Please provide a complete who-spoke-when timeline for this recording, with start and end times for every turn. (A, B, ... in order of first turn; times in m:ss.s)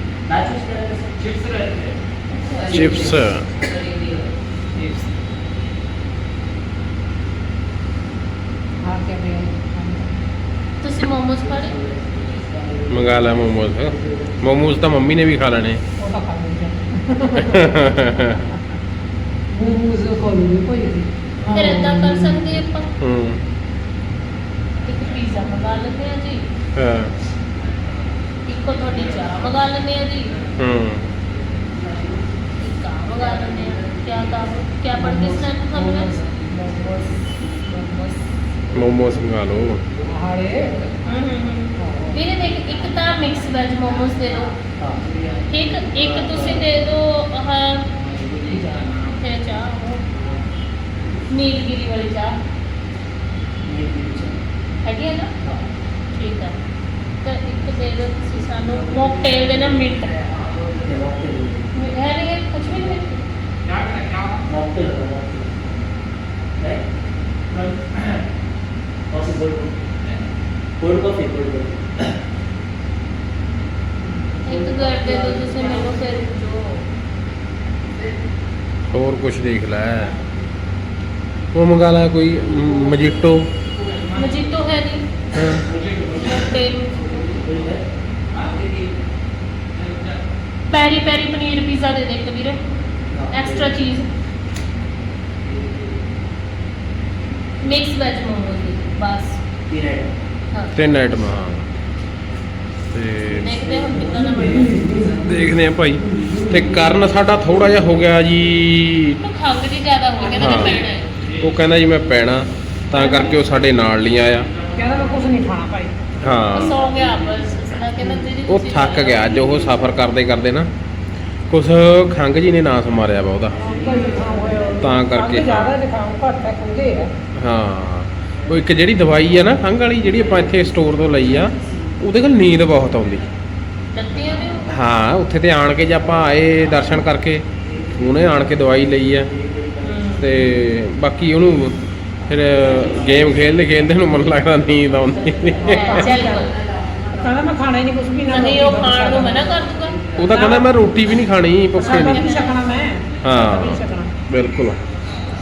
0:00.3-0:01.3 A
0:02.3-0:03.0 B
0:02.7-0:03.6 C
0:02.7-0:03.2 D
0:04.7-0:05.1 D
0:08.8-0:10.1 D
0:10.8-0:11.8 B
0:12.9-0:15.8 C
0:16.0-0:17.8 D
0:17.3-0:18.4 C
0:19.5-0:22.4 D
0:21.5-0:22.9 B
0:23.0-0:23.4 C
0:24.8-0:26.4 B
0:26.8-0:27.1 C
0:28.4-0:30.3 B
0:30.6-0:31.1 C
0:32.6-0:36.1 B
0:34.9-0:38.2 D
0:38.7-0:39.8 C
0:40.1-0:40.9 D
0:41.1-0:44.6 B
0:41.8-0:42.2 D
0:45.5-0:47.9 B
0:48.5-0:50.0 B
0:51.3-0:52.4 B
0:53.6-0:54.4 A
0:54.8-0:55.3 B
0:56.1-0:56.6 B
0:57.2-1:00.2 B
1:00.8-1:01.6 A
1:01.7-1:03.2 B
1:04.4-1:05.6 A
1:09.1-1:09.7 A
1:10.8-1:11.9 A
1:14.4-1:16.8 B
1:18.9-1:20.1 C
1:21.5-1:23.5 C
1:24.1-1:25.0 B
1:25.3-1:25.7 C
1:26.1-1:27.2 B
1:27.4-1:27.8 A
1:30.7-1:32.6 B
1:33.3-1:34.1 B
1:37.6-1:39.4 B
1:39.7-1:40.1 A
1:40.8-1:41.7 C
1:42.9-1:43.5 C
1:43.3-1:44.8 B
1:45.0-1:49.2 C
1:49.2-1:51.1 B
1:50.3-1:50.8 C
1:51.4-1:54.5 C
1:52.9-1:53.2 B
1:54.8-1:56.0 D
1:56.2-1:56.8 C
1:56.5-1:59.5 B
1:58.5-2:00.7 C
2:01.5-2:03.6 C
2:03.6-2:07.1 D
2:04.8-2:05.8 C
2:07.4-2:13.2 C
2:13.9-2:14.7 B
2:14.7-2:17.4 C
2:18.0-2:19.3 C
2:19.8-2:20.4 B
2:20.2-2:21.8 C
2:22.3-2:26.1 C
2:25.7-2:26.6 B
2:25.8-2:26.5 D
2:27.2-2:29.5 D
2:28.3-2:30.0 B
2:30.2-2:32.3 C
2:30.3-2:30.7 D
2:31.8-2:34.1 D
2:31.8-2:32.6 B
2:33.2-2:34.8 C